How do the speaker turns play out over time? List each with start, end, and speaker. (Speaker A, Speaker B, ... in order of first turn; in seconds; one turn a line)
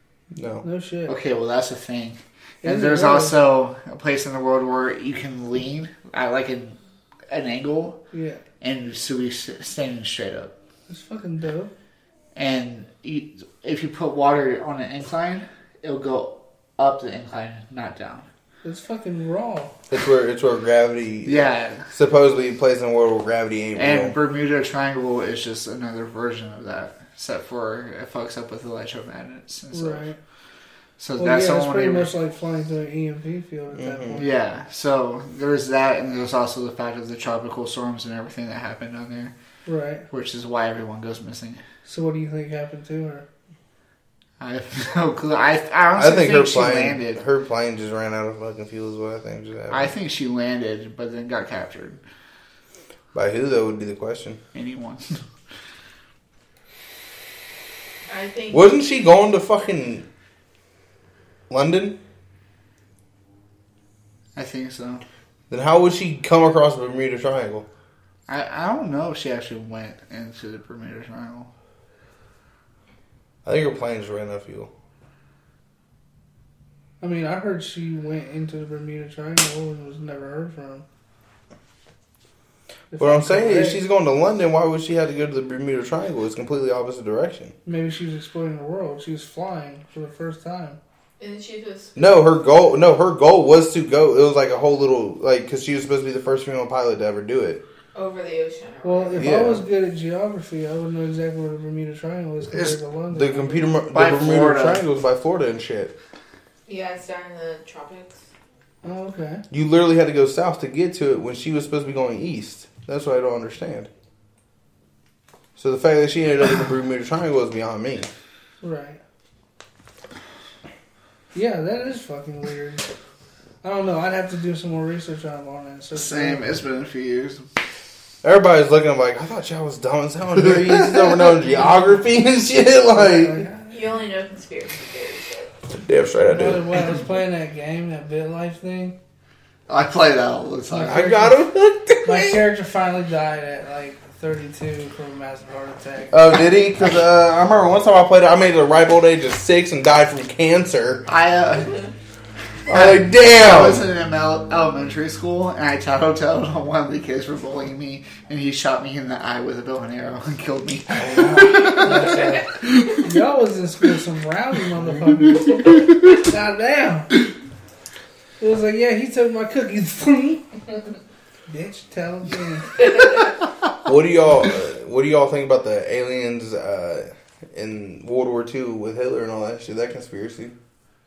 Speaker A: 0.3-0.6
Speaker B: 0.6-1.1
Speaker C: 1.1-6.8
Speaker B: 2.6-3.4
Speaker C: 7.3-8.0
Speaker B: 8.1-8.4
Speaker C: 8.6-10.5
Speaker B: 10.9-11.7
Speaker C: 12.3-18.3
Speaker B: 18.6-19.7
Speaker A: 19.9-24.1
Speaker C: 21.2-21.9
Speaker C: 23.8-30.1
Speaker B: 29.7-30.2
Speaker C: 31.0-32.1
Speaker B: 31.2-34.4
Speaker A: 33.7-34.2
Speaker C: 34.2-39.3
Speaker B: 39.6-40.1
Speaker C: 40.1-41.6
Speaker B: 41.8-43.2
Speaker C: 44.4-47.2
Speaker A: 46.0-49.9
Speaker C: 49.7-52.0
Speaker A: 53.1-54.4
Speaker C: 54.5-55.2
Speaker D: 58.1-58.8
Speaker A: 58.5-60.0
Speaker A: 61.5-62.0
Speaker C: 64.3-65.0
Speaker A: 65.5-67.7
Speaker C: 68.3-71.5
Speaker A: 73.4-74.7
Speaker B: 77.0-80.8
Speaker B: 82.9-83.8
Speaker A: 83.0-87.5
Speaker B: 87.6-90.8
Speaker D: 91.2-92.1
Speaker A: 92.0-97.6
Speaker D: 97.9-99.3
Speaker B: 98.8-103.8
Speaker A: 99.2-99.6
Speaker C: 102.5-102.8
Speaker A: 103.1-105.9
Speaker C: 103.9-104.8
Speaker D: 106.7-108.2
Speaker B: 108.8-109.4
Speaker A: 109.5-113.9
Speaker A: 115.5-118.1
Speaker B: 118.6-119.0
Speaker B: 121.3-122.9
Speaker B: 123.6-126.5
Speaker C: 125.9-127.5
Speaker A: 128.2-133.4
Speaker B: 132.9-133.8
Speaker D: 133.7-135.5
Speaker A: 135.7-136.8
Speaker B: 136.2-139.0
Speaker C: 139.7-141.1
Speaker B: 140.7-141.4
Speaker A: 140.8-142.4
Speaker B: 142.0-146.2
Speaker A: 146.1-151.0
Speaker C: 151.1-151.9
Speaker A: 152.7-153.8
Speaker C: 152.7-163.0
Speaker A: 160.9-162.5
Speaker B: 163.0-167.2
Speaker B: 168.4-170.6
Speaker B: 171.5-173.0
Speaker A: 173.8-180.5